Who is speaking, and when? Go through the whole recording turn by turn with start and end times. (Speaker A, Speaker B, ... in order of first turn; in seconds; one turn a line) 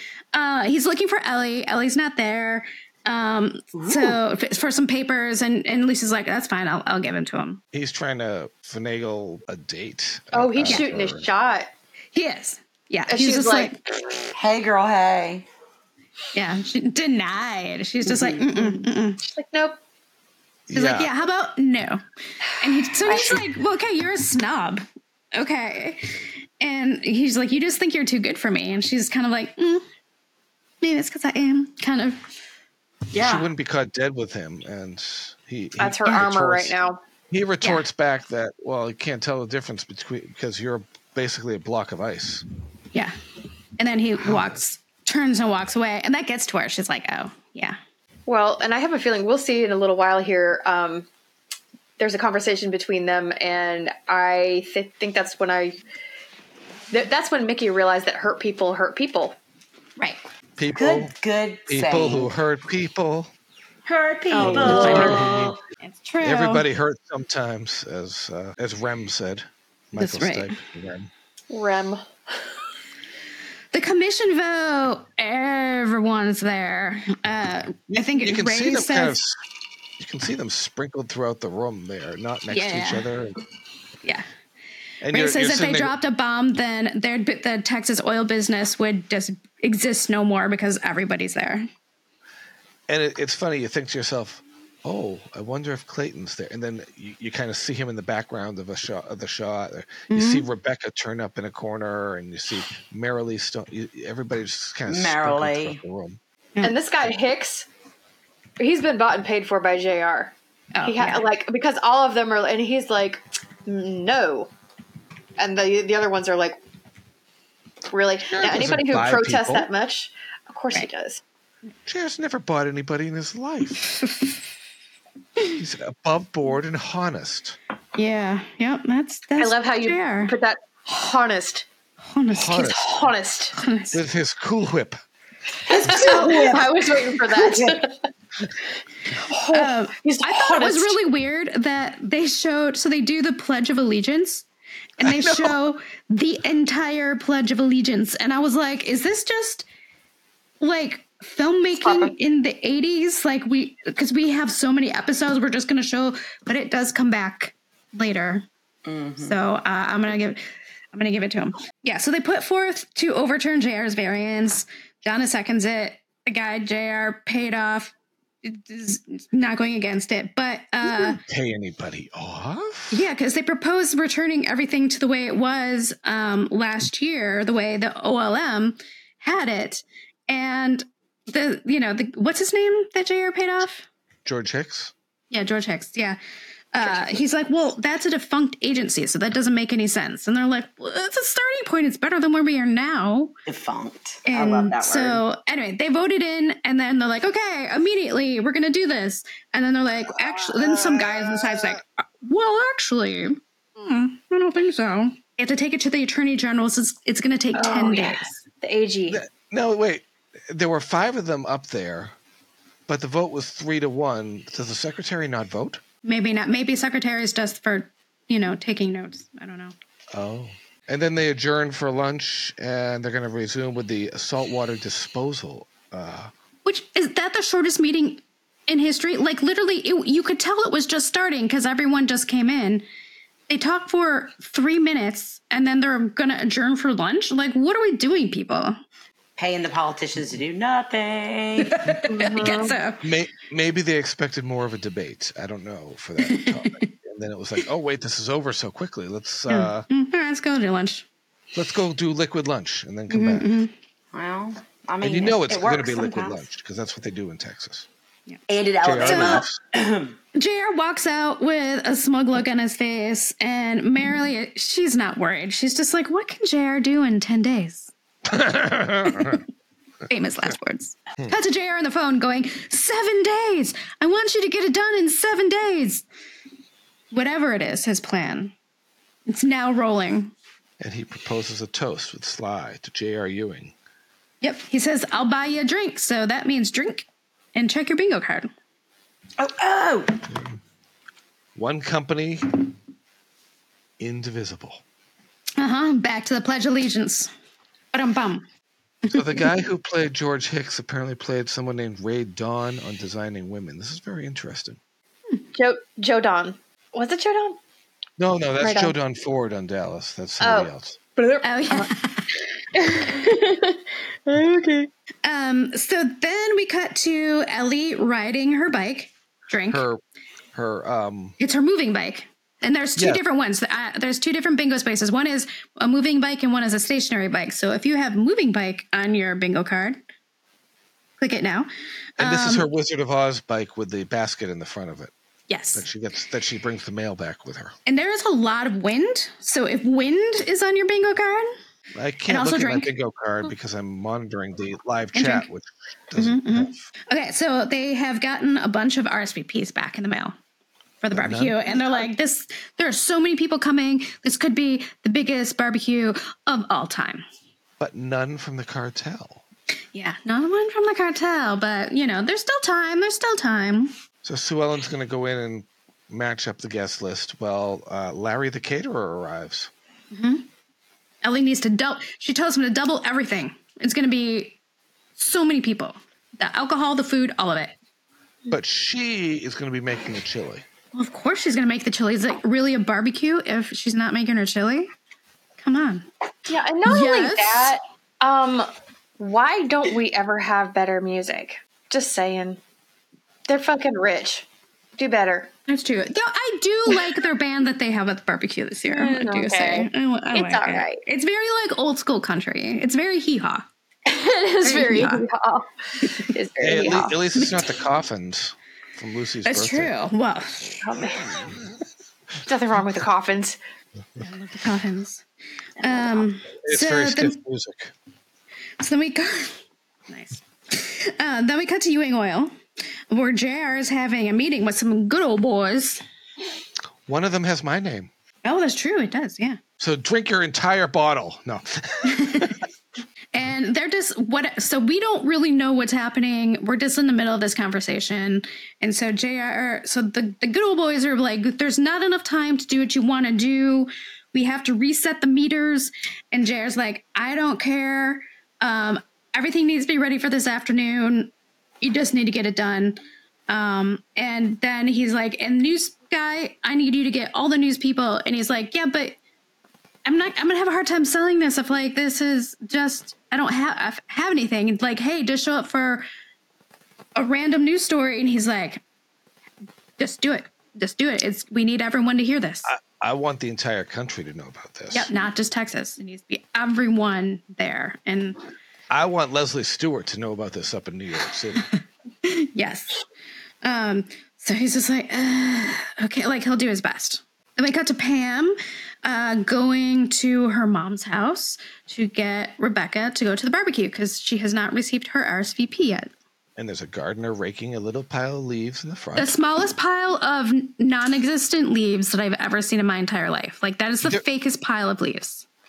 Speaker A: 0.3-7.6
Speaker B: 3.7-4.2
Speaker C: 7.7-11.3
Speaker D: 10.3-11.7
Speaker A: 12.1-13.8
Speaker D: 13.1-14.2
Speaker B: 14.3-15.4
Speaker A: 16.3-19.2
Speaker B: 18.0-18.7
Speaker D: 19.2-19.8
Speaker C: 20.7-21.1
Speaker A: 20.7-22.0
Speaker A: 22.6-26.0
Speaker B: 23.1-23.4
Speaker A: 26.6-29.8
Speaker A: 30.8-32.2
Speaker B: 33.1-33.5
Speaker C: 33.2-36.8
Speaker D: 35.8-37.0
Speaker C: 37.3-42.4
Speaker A: 43.8-47.8
Speaker C: 44.2-44.5
Speaker D: 48.3-51.1
Speaker D: 52.0-55.8
Speaker D: 56.9-59.4
Speaker C: 60.6-61.1
Speaker B: 60.7-62.3
Speaker C: 61.7-63.3
Speaker B: 63.8-65.6
Speaker D: 64.3-65.3
Speaker C: 64.4-65.6
Speaker A: 64.7-65.2
Speaker A: 65.8-66.7
Speaker C: 66.2-71.1
Speaker A: 70.0-70.6
Speaker D: 71.5-72.0
Speaker A: 73.7-79.2
Speaker C: 77.9-79.4
Speaker C: 80.0-83.4
Speaker A: 82.5-83.1
Speaker C: 85.0-86.0
Speaker A: 85.1-91.7
Speaker C: 92.9-106.2
Speaker A: 100.1-100.5
Speaker B: 104.9-105.8
Speaker D: 106.6-107.7
Speaker D: 108.6-114.5
Speaker A: 110.7-111.2
Speaker D: 115.4-116.6
Speaker D: 117.9-121.2
Speaker C: 118.3-119.7
Speaker C: 121.8-123.9
Speaker A: 124.0-124.3
Speaker C: 125.5-127.6
Speaker A: 128.0-130.3
Speaker D: 129.4-131.7
Speaker A: 132.1-132.7
Speaker C: 132.3-133.1
Speaker D: 132.6-133.6
Speaker A: 133.6-134.0
Speaker C: 133.9-135.0
Speaker B: 135.7-137.8
Speaker D: 135.7-138.0
Speaker A: 136.0-136.5
Speaker D: 139.2-141.0
Speaker A: 139.5-144.4
Speaker A: 145.0-149.7
Speaker C: 145.0-145.5
Speaker A: 150.6-158.4
Speaker D: 151.8-152.1
Speaker B: 158.8-159.3
Speaker A: 159.2-160.4
Speaker A: 160.9-167.9
Speaker A: 168.4-171.2
Speaker C: 170.8-173.1
Speaker A: 172.9-183.8
Speaker C: 184.2-184.9
Speaker A: 185.3-186.2
Speaker A: 186.7-193.3
Speaker B: 186.8-187.1
Speaker B: 193.5-195.2
Speaker A: 194.3-208.3
Speaker D: 207.5-209.2
Speaker C: 209.1-212.1
Speaker C: 212.9-215.8
Speaker A: 216.0-219.7
Speaker C: 220.1-226.3
Speaker A: 226.6-232.8
Speaker A: 233.5-238.8
Speaker B: 239.4-241.8
Speaker A: 241.6-243.0
Speaker D: 242.1-242.8
Speaker C: 243.0-249.8
Speaker A: 246.2-246.9
Speaker A: 249.5-251.0
Speaker C: 251.5-253.5
Speaker A: 253.1-253.7
Speaker B: 254.1-256.4
Speaker C: 255.0-257.9
Speaker B: 258.5-260.1
Speaker C: 258.8-259.6
Speaker A: 259.0-259.4
Speaker A: 260.3-267.9
Speaker C: 268.3-269.4
Speaker A: 269.1-269.4
Speaker A: 270.1-276.0
Speaker A: 277.1-278.5
Speaker A: 279.3-280.3
Speaker C: 280.8-283.7
Speaker A: 284.4-288.5
Speaker B: 289.4-290.2
Speaker C: 290.3-290.6
Speaker C: 291.5-292.7
Speaker C: 294.0-294.8
Speaker A: 295.6-297.3
Speaker A: 297.9-298.4
Speaker A: 299.1-299.5
Speaker C: 299.1-304.8
Speaker D: 305.5-307.6
Speaker C: 308.2-311.0
Speaker D: 308.6-308.9
Speaker D: 310.4-311.9
Speaker A: 311.4-312.2
Speaker D: 312.7-314.9
Speaker A: 315.2-319.8
Speaker C: 319.7-320.0
Speaker C: 320.5-321.4
Speaker A: 321.4-330.0
Speaker C: 323.0-323.2
Speaker A: 331.2-332.7
Speaker C: 332.2-335.1
Speaker A: 335.5-335.9
Speaker C: 335.7-337.7
Speaker A: 337.9-341.5
Speaker C: 341.9-346.8
Speaker A: 342.3-342.9
Speaker A: 345.1-345.5
Speaker A: 346.1-350.3
Speaker A: 351.0-357.2
Speaker C: 351.1-351.9
Speaker C: 357.8-359.4
Speaker A: 359.9-363.9
Speaker C: 364.2-369.7
Speaker A: 370.1-370.4
Speaker A: 371.2-374.6
Speaker A: 375.2-377.7
Speaker C: 378.5-380.6
Speaker A: 380.9-384.9
Speaker A: 385.6-386.1
Speaker D: 386.5-392.6
Speaker A: 386.9-387.7
Speaker D: 393.5-394.4
Speaker D: 395.0-395.5
Speaker A: 395.7-403.6
Speaker D: 398.9-401.0
Speaker D: 404.1-407.2
Speaker A: 404.6-405.2
Speaker C: 406.6-409.9
Speaker A: 409.4-410.8
Speaker D: 410.8-411.5
Speaker D: 412.4-413.6
Speaker A: 414.2-415.2
Speaker A: 415.8-417.3
Speaker D: 415.8-416.2
Speaker C: 416.6-417.9
Speaker A: 418.8-419.6
Speaker A: 420.1-422.5
Speaker A: 423.1-426.0
Speaker C: 427.1-428.1
Speaker A: 428.4-429.6
Speaker C: 429.8-432.5
Speaker A: 432.1-432.5
Speaker A: 433.3-459.1
Speaker A: 460.0-466.0
Speaker A: 467.1-468.8
Speaker A: 470.0-472.7
Speaker C: 472.6-475.1
Speaker A: 474.9-478.4
Speaker C: 478.9-481.6
Speaker A: 482.2-483.0
Speaker A: 483.6-496.1
Speaker C: 496.6-499.4
Speaker A: 499.1-505.4